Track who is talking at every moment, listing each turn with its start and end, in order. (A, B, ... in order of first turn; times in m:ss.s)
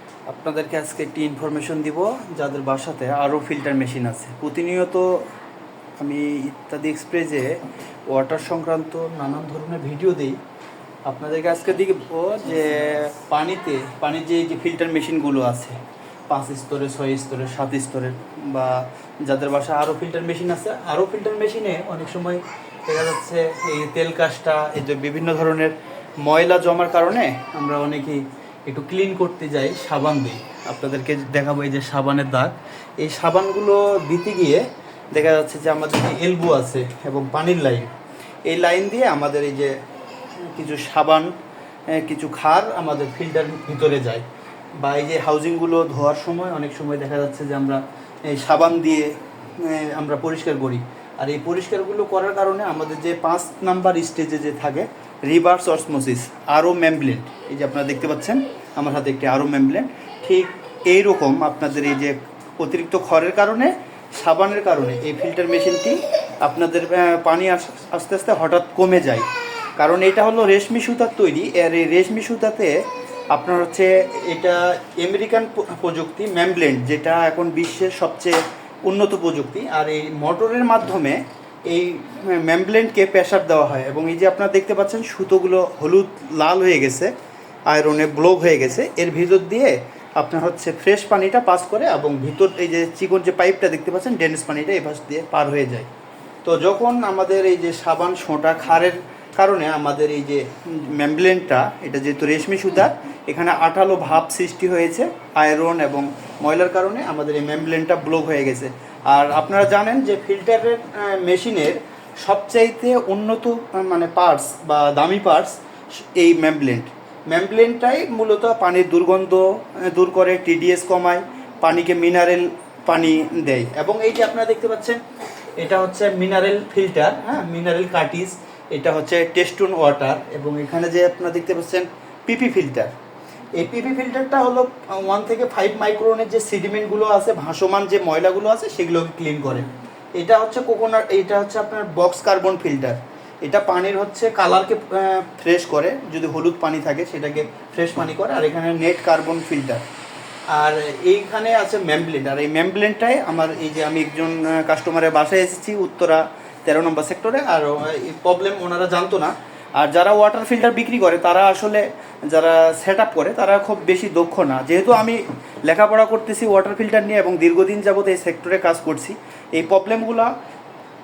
0:00.3-0:05.2 A
0:06.0-0:10.4 A
0:11.1-0:37.9 A
0:38.5-0:39.7 A
0:40.4-0:41.3 A
0:41.9-0:44.2 A
0:44.8-1:09.3 A
1:09.8-1:27.1 A
1:27.7-1:35.9 A
1:36.4-2:05.0 A
2:05.6-2:12.9 A
2:13.6-2:29.8 A
2:30.5-2:50.3 A